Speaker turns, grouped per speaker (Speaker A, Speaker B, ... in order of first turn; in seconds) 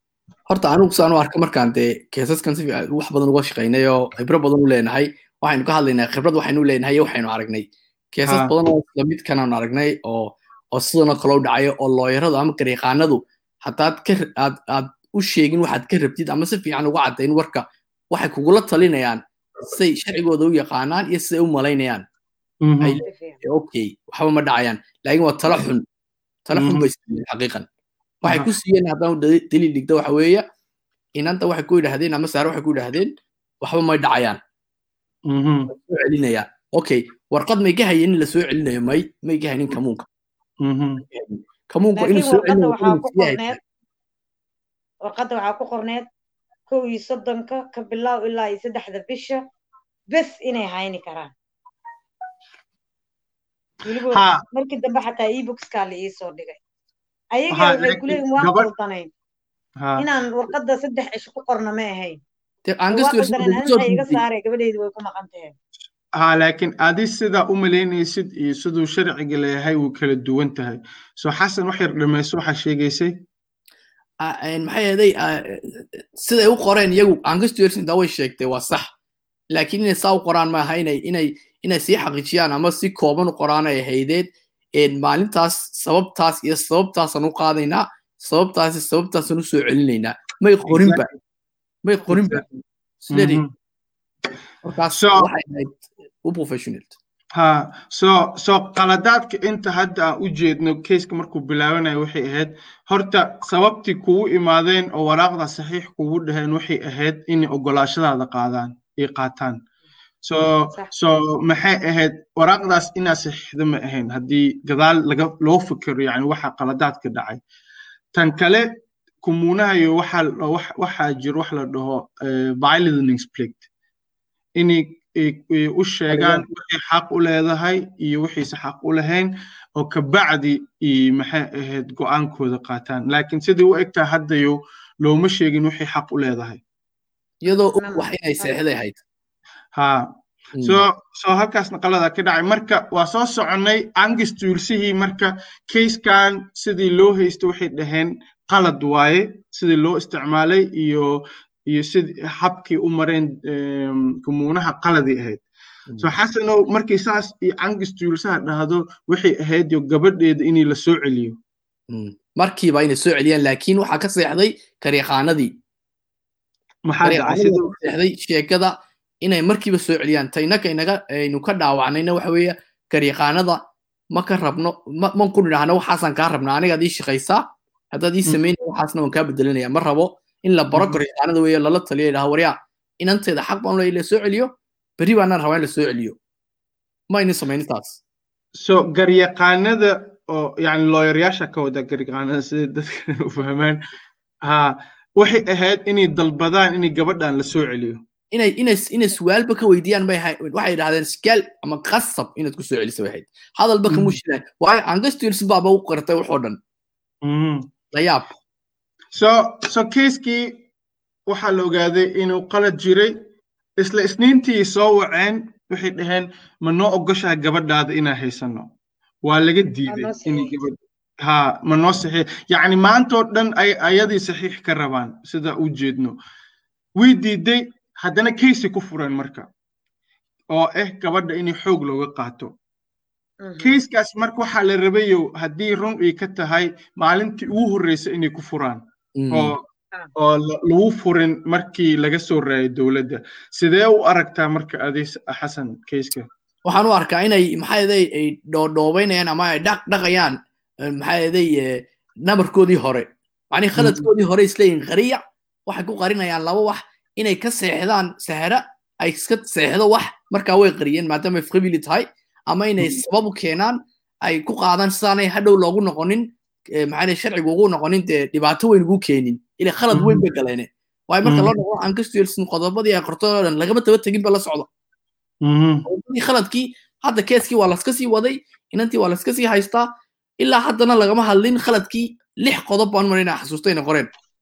Speaker A: 0.5-22.0, 22.8-25.9, 26.5-27.7, 28.2-30.4, 31.2-34.4, 35.7-40.1, 41.1-43.6, 62.7-64.2, 74.2-78.9, 79.5-91.1, 91.8-92.5, 93.0-93.4, 94.6-96.9, 137.4-139.0, 140.6-140.8, 161.9-165.6, 167.0-173.6, 174.1-186.2, 187.1-188.0, 198.3-206.6, 207.9-208.3, 239.2-239.6, 246.7-274.7, 275.9-284.1
Speaker B: 8.2-8.5, 22.6-23.0, 26.5-26.9, 28.2-28.5, 35.3-35.7, 40.6-41.0, 54.1-54.4, 57.5-58.7, 66.2-73.1, 90.7-91.1, 92.1-92.5, 93.1-93.5, 94.9-95.3, 97.4-109.6, 110.2-117.4, 118.1-118.7, 119.2-123.6, 124.6-136.6, 139.8-155.4, 156.0-161.4, 166.9-167.8, 180.7-181.0, 188.6-193.8, 194.5-198.0, 203.9-204.2, 207.2-207.7, 209.2-210.7, 211.3-213.2, 213.8-218.7, 219.2-226.2, 227.0-229.5, 230.5-232.5, 233.6-239.6, 240.2-246.3, 253.8-254.1, 269.9-270.2, 271.2-271.5, 275.4-275.9
Speaker C: 23.1-23.4, 42.0-43.6, 45.0-46.1, 46.7-49.4, 50.1-51.3, 53.9-56.6, 57.3-59.1, 60.0-62.2, 62.9-65.5, 137.8-138.6, 219.9-220.6, 233.4-233.8